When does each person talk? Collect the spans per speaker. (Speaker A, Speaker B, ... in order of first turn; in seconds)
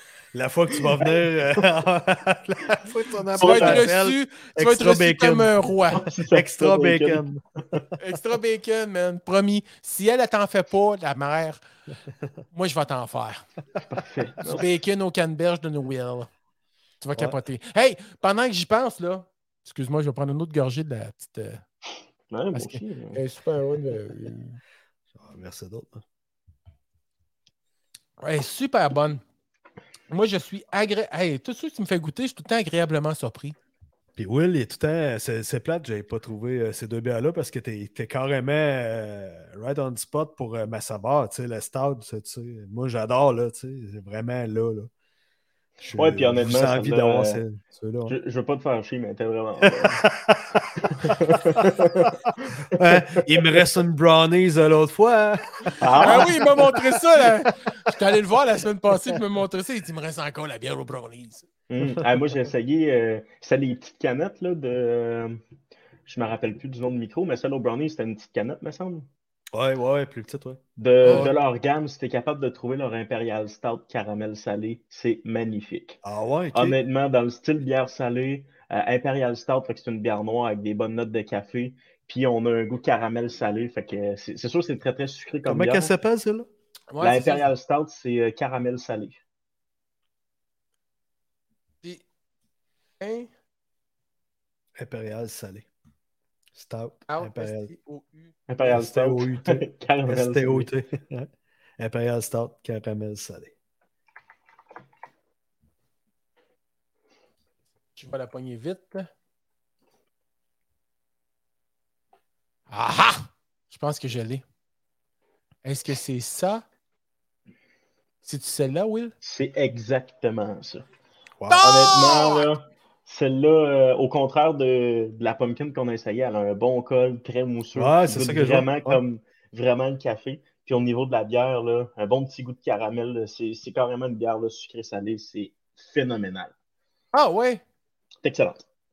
Speaker A: 0.3-5.5, 6.3-7.8, 25.1-26.0, 34.1-44.9, 45.8-48.1, 49.6-51.9, 52.7-57.2, 69.5-71.3, 76.0-76.8, 85.5-86.5, 94.8-95.7, 96.5-97.7, 98.6-103.5, 127.7-129.0
Speaker B: 3.4-3.9, 5.9-7.2, 13.9-14.7, 22.3-23.2, 46.0-47.4, 48.1-50.0, 50.8-53.4, 55.8-56.5, 61.7-65.4, 66.0-69.1, 70.8-76.0, 76.5-85.9, 87.0-89.2, 98.5-100.7, 119.2-120.8, 121.6-136.5, 138.2-138.6
Speaker C: 3.4-6.0, 8.0-11.6, 12.5-13.4, 14.4-16.3, 17.0-21.6, 22.5-24.6, 28.2-29.2, 30.1-33.5, 56.0-61.5, 71.0-71.3, 86.9-87.5, 93.0-93.3, 97.1-98.3, 108.0-109.1, 112.7-114.4, 115.6-116.6, 118.2-119.1, 121.5-122.5, 137.1-137.6